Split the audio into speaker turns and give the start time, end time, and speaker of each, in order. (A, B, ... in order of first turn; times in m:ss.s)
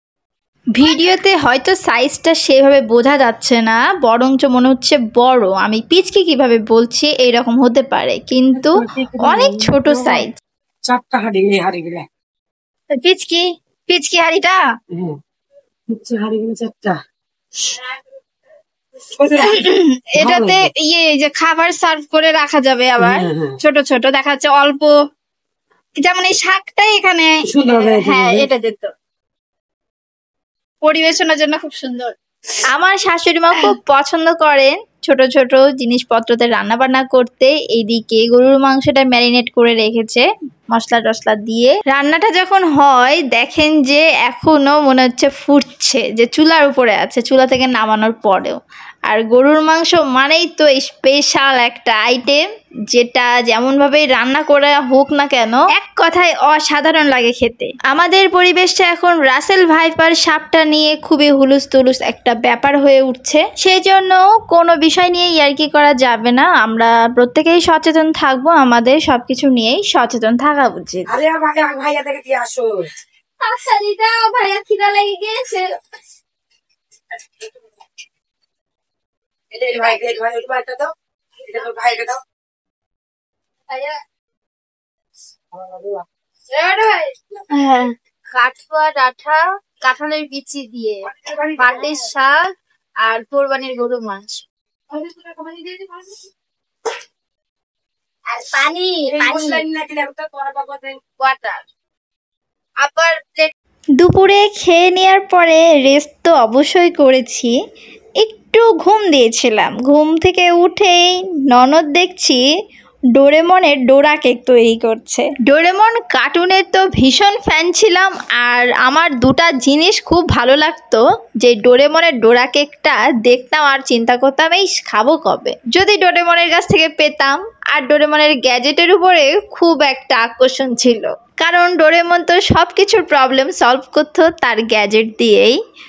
0:00.7-0:10.4 A
0:08.5-0:10.3 B
0:10.9-0:12.0 B
0:13.0-0:14.6 C
0:14.9-0:15.2 B
0:15.9-0:17.0 B
0:19.0-0:19.6 B
0:19.4-0:24.9 C
0:20.2-0:20.6 B
0:23.0-0:23.6 B
0:26.0-0:28.9 C
0:27.4-0:28.5 B
0:30.8-0:32.1 C
0:32.7-0:52.4 A
0:52.9-1:11.1 A
1:11.1-1:12.8 B
1:13.4-1:15.8 C
1:19.5-1:20.9 B
1:21.4-1:22.2 B
1:23.7-1:24.0 C
1:25.5-1:26.0 B
1:26.5-1:32.5 C
1:31.1-1:32.0 B
1:33.0-1:34.4 C
1:34.9-1:36.1 C
1:38.3-1:39.6 C
1:39.1-1:41.0 B
1:41.2-1:41.6 C
1:42.8-1:43.5 C
1:44.0-1:47.5 A
1:48.2-1:52.4 A
1:53.2-2:15.5 A